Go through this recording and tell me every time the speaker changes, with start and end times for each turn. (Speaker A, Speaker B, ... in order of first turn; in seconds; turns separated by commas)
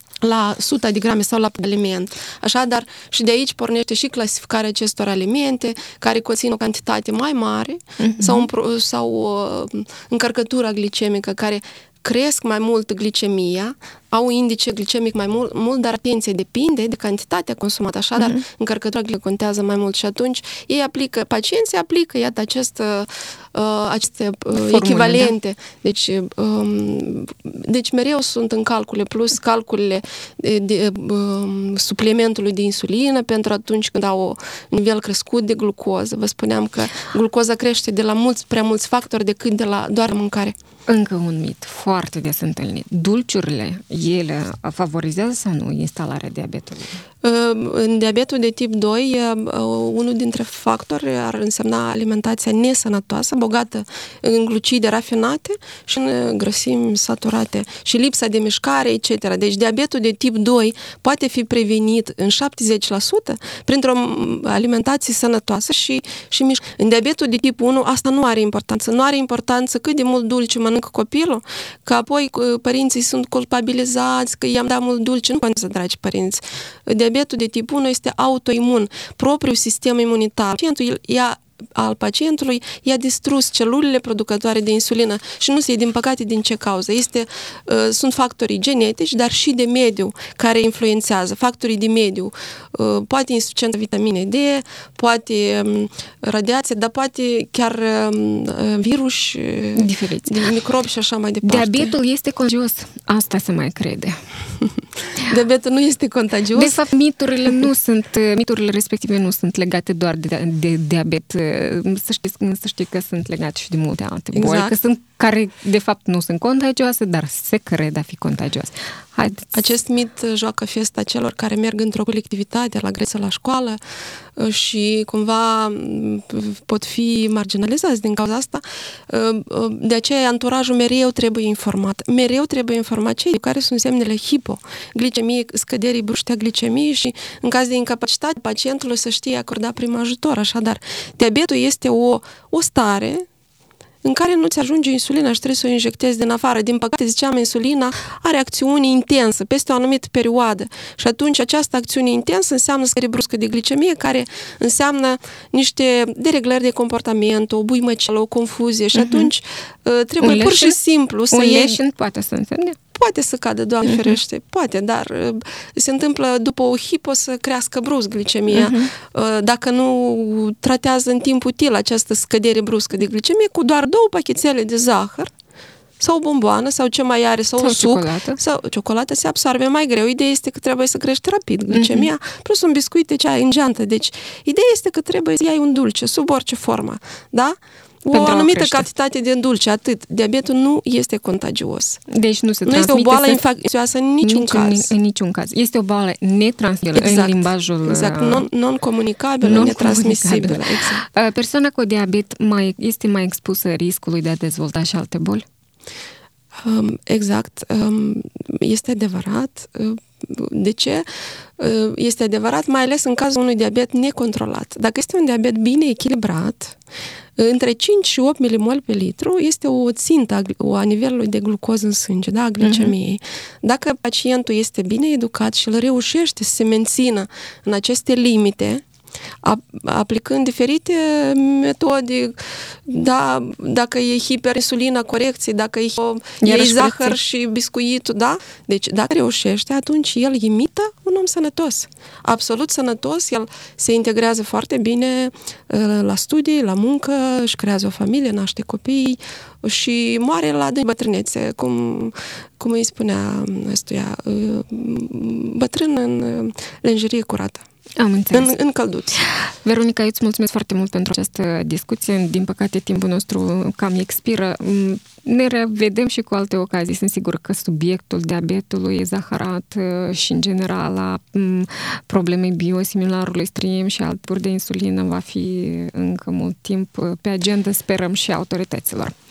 Speaker A: 0.2-40.6, Speaker B: 8.0-8.5, Speaker B: 18.2-18.4, Speaker B: 24.5-25.3, Speaker B: 40.9-47.0, Speaker A: 47.2-102.0, Speaker B: 99.8-100.4, Speaker B: 101.4-104.2, Speaker A: 105.2-106.8, Speaker B: 106.5-119.6, Speaker A: 114.3-114.7, Speaker A: 119.5-123.8, Speaker A: 124.3-143.3, Speaker A: 144.0-161.8, Speaker B: 158.9-159.3, Speaker B: 160.2-160.8, Speaker B: 161.3-162.8, Speaker A: 162.9-175.3, Speaker B: 163.8-164.1, Speaker B: 168.5-168.9, Speaker A: 176.0-192.0, Speaker B: 177.6-178.4, Speaker B: 181.7-182.1, Speaker B: 188.1-188.9, Speaker B: 192.1-193.4, Speaker A: 192.7-194.9, Speaker B: 194.2-198.5, Speaker A: 196.9-201.1, Speaker B: 199.4-205.4, Speaker A: 206.6-211.1, Speaker A: 211.6-216.8, Speaker A: 217.4-228.8, Speaker B: 222.6-222.9, Speaker A: 229.4-257.6, Speaker B: 236.4-237.2, Speaker B: 258.0-258.5, Speaker A: 258.3-259.2, Speaker B: 259.2-279.2